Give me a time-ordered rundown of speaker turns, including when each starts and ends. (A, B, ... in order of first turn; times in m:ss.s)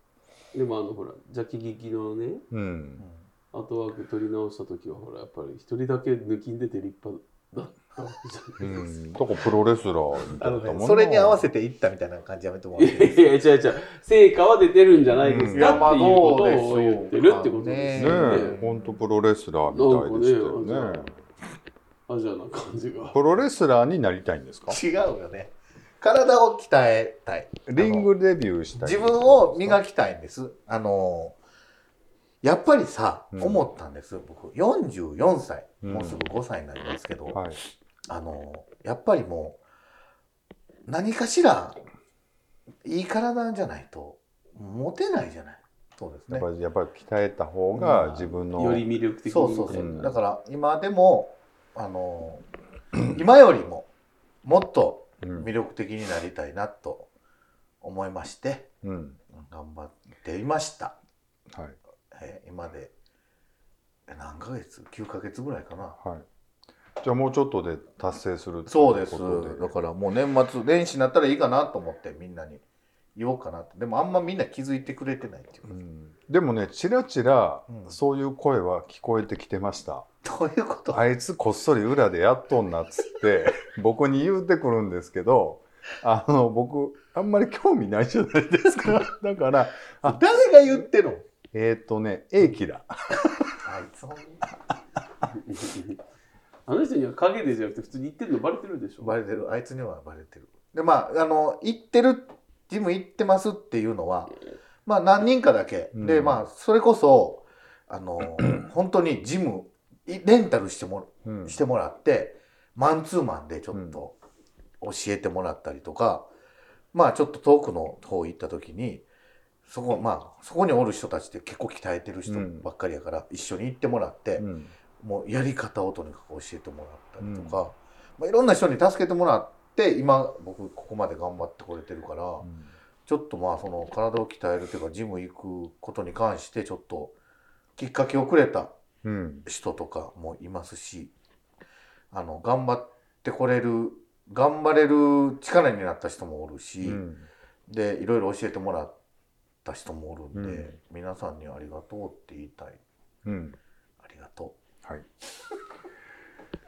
0:00.5-0:02.4 A
0:02.5-0:03.0 B
0:03.5-0:08.8 A
0:08.6-0:11.5 B
0:10.4-0:13.3 C
0:12.8-0:18.6 A
0:15.1-0:16.3 B
0:15.5-0:18.9 C
0:17.9-0:21.2 B
0:19.7-0:21.1 A
0:22.1-0:23.2 A
0:23.1-0:24.8 B
0:24.7-0:28.1 C
0:27.7-0:29.8 B
0:28.8-0:31.4 C
0:32.4-0:37.4 C
0:33.3-0:33.6 B
0:35.8-0:36.2 B
0:37.3-0:37.6 B
0:38.1-0:39.6 C
0:40.8-0:41.8 C
0:42.8-0:46.5 C
0:46.3-0:48.9 B
0:47.8-0:48.2 C
0:48.5-0:50.1 A
0:49.3-0:52.4 C
0:49.7-0:50.1 B
0:53.0-0:53.9 C
0:54.4-0:57.1 C
0:55.2-0:55.5 B
0:57.8-0:58.7 C
0:58.8-0:59.2 B
0:59.3-1:01.0 C
1:01.5-1:01.8 B
1:02.1-1:02.9 C
1:04.1-1:06.0 C
1:06.0-1:06.2 B
1:07.0-1:09.7 B
1:08.7-1:12.6 C
1:13.2-1:15.7 C
1:15.7-1:20.1 B
1:17.7-1:18.0 C
1:20.2-1:21.0 C
1:20.9-1:30.2 B
1:30.0-1:31.2 C
1:31.5-1:33.5 B
1:33.6-1:34.4 C
1:35.3-1:36.0 A
1:36.7-1:39.1 A
1:39.0-1:54.1 C
1:45.9-1:46.4 B
1:51.2-1:51.6 B
1:53.7-1:54.0 B
1:54.8-1:56.3 C
1:56.9-1:59.0 C
1:59.6-2:04.5 C
2:02.2-2:02.7 B
2:04.4-2:04.7 B
2:05.0-2:12.5 C
2:07.2-2:07.6 B
2:12.4-2:12.7 B
2:13.0-2:17.1 C
2:17.8-2:18.7 C
2:19.0-2:19.4 B
2:19.4-2:21.1 C
2:22.1-2:27.0 C
2:26.8-2:27.3 B
2:27.7-2:29.0 C
2:29.6-2:32.8 C
2:30.3-2:30.7 B
2:33.2-2:33.6 B
2:34.0-2:34.6 C